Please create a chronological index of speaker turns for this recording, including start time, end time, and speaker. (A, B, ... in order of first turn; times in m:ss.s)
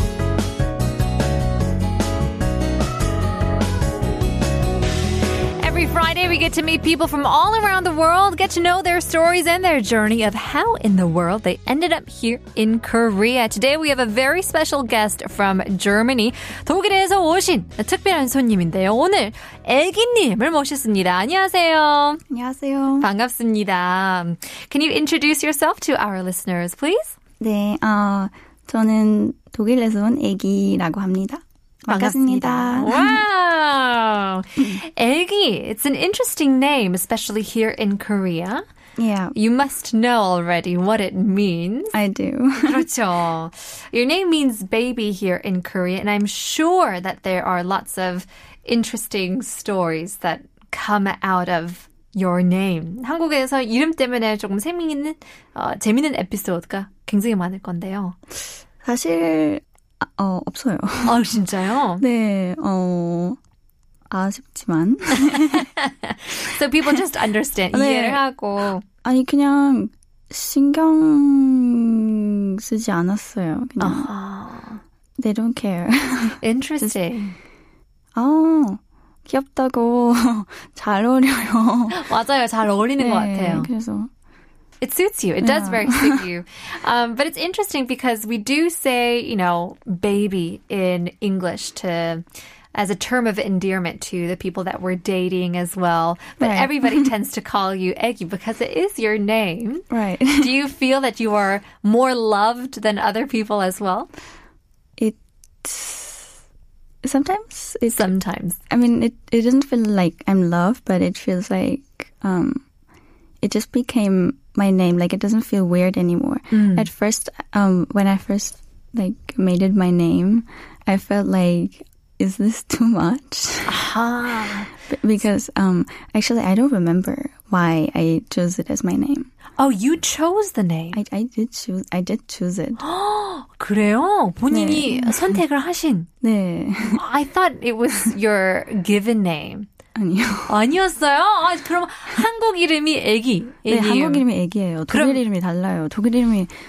0:05.6-0:22.2 A
0:22.3-0:23.1 B
0:23.0-0:27.2 A
0:27.4-0:33.2 B
0:31.9-0:38.6 A
0:39.0-0:39.3 B
0:39.3-0:42.0 A
0:41.9-0:42.9 B
0:42.6-0:58.2 A
0:58.8-1:01.4 B
1:01.0-1:02.0 A
1:02.0-1:03.4 B
1:04.1-1:05.7 B
1:05.2-1:08.8 A
1:07.7-1:08.2 B
1:09.0-1:14.1 B
1:13.8-1:14.8 A
1:15.2-1:17.1 B
1:16.4-1:17.3 A
1:18.1-1:22.0 B
1:21.9-1:23.7 A
1:23.0-1:24.1 B
1:24.8-1:44.1 A
1:25.4-1:26.3 B
1:36.4-1:37.1 B
1:39.9-1:40.6 B
1:45.0-1:46.3 B
1:47.0-1:48.1 B
1:47.9-1:48.6 A
1:48.7-1:52.6 B
1:53.4-2:03.8 B
1:56.5-1:56.9 A
2:03.6-2:04.7 A
2:04.9-2:09.3 B
2:09.6-2:11.0 A
2:10.9-2:12.8 B
2:12.8-2:16.1 A
2:14.5-2:15.4 B
2:16.2-2:17.0 B
2:16.9-2:19.7 A
2:20.0-2:20.6 B
2:20.5-2:24.2 A
2:23.7-2:26.5 B
2:24.9-2:25.2 A